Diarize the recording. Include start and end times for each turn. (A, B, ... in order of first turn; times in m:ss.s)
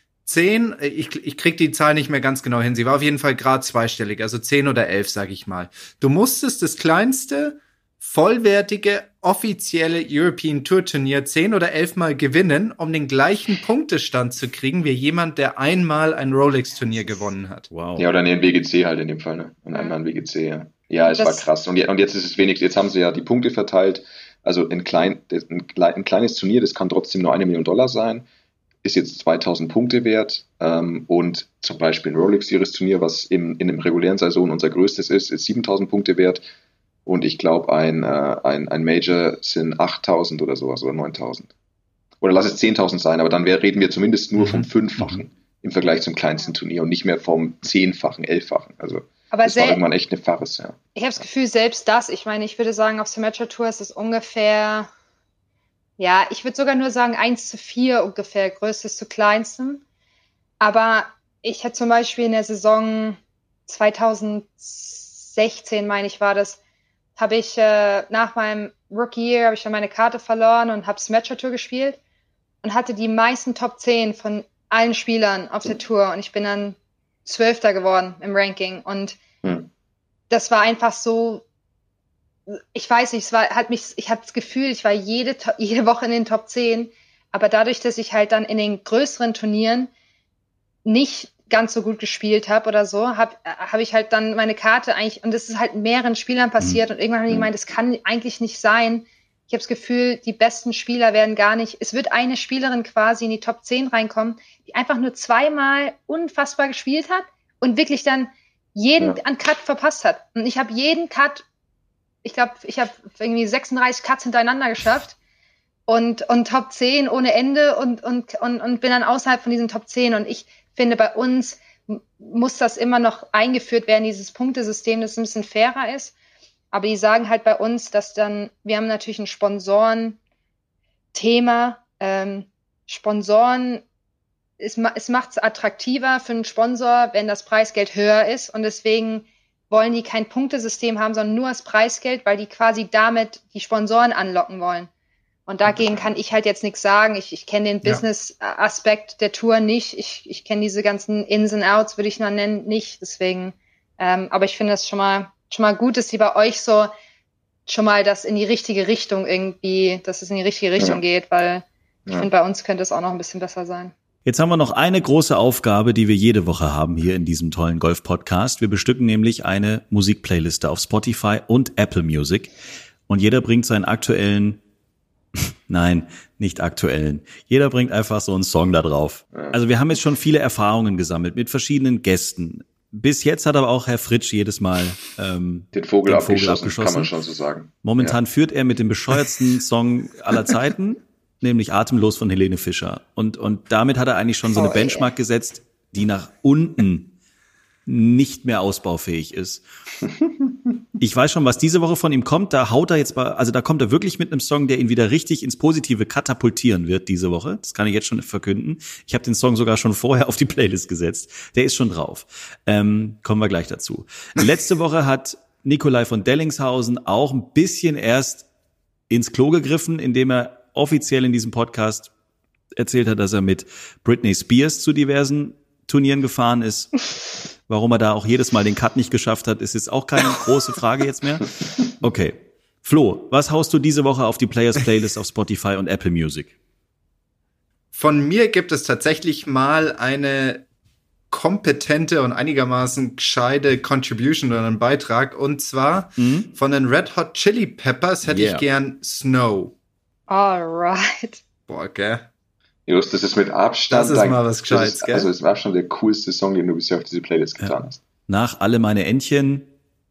0:00.3-0:17.7 A
0:17.7-0:18.1 B
0:18.0-0:28.3 C
0:21.1-0:21.5 D
0:28.8-0:36.4 C
0:37.1-0:41.5 C
0:42.2-0:50.8 C
0:49.3-0:49.8 D
0:51.0-0:54.9 D
0:56.0-0:59.8 D
1:00.6-1:06.6 D
1:07.2-1:12.0 D
1:12.6-1:19.2 D
1:19.4-1:19.7 C
1:20.3-1:21.4 D
1:22.5-1:29.9 D
1:30.8-1:51.4 D
1:52.2-1:55.2 D
1:55.9-2:06.1 D
2:06.7-2:10.2 D
2:11.1-2:13.8 D
2:14.6-2:24.9 D
2:25.5-2:36.9 D
2:37.7-2:43.9 D
2:44.2-2:52.5 B
2:53.1-2:54.6 B
2:55.4-3:07.1 B
3:05.7-3:08.2 C
3:07.8-3:17.1 B
3:14.5-3:15.1 D
3:17.9-3:19.6 B
3:21.0-3:38.5 B
3:39.1-3:42.1 B
3:42.8-3:47.1 B
3:47.7-3:56.5 B
3:57.9-4:00.6 A
4:01.3-4:09.7 A
4:06.2-4:06.5 B
4:08.2-4:08.6 B
4:10.3-4:11.4 D
4:11.7-4:12.3 A
4:12.9-4:18.0 C
4:13.9-4:15.3 A
4:18.3-4:19.7 B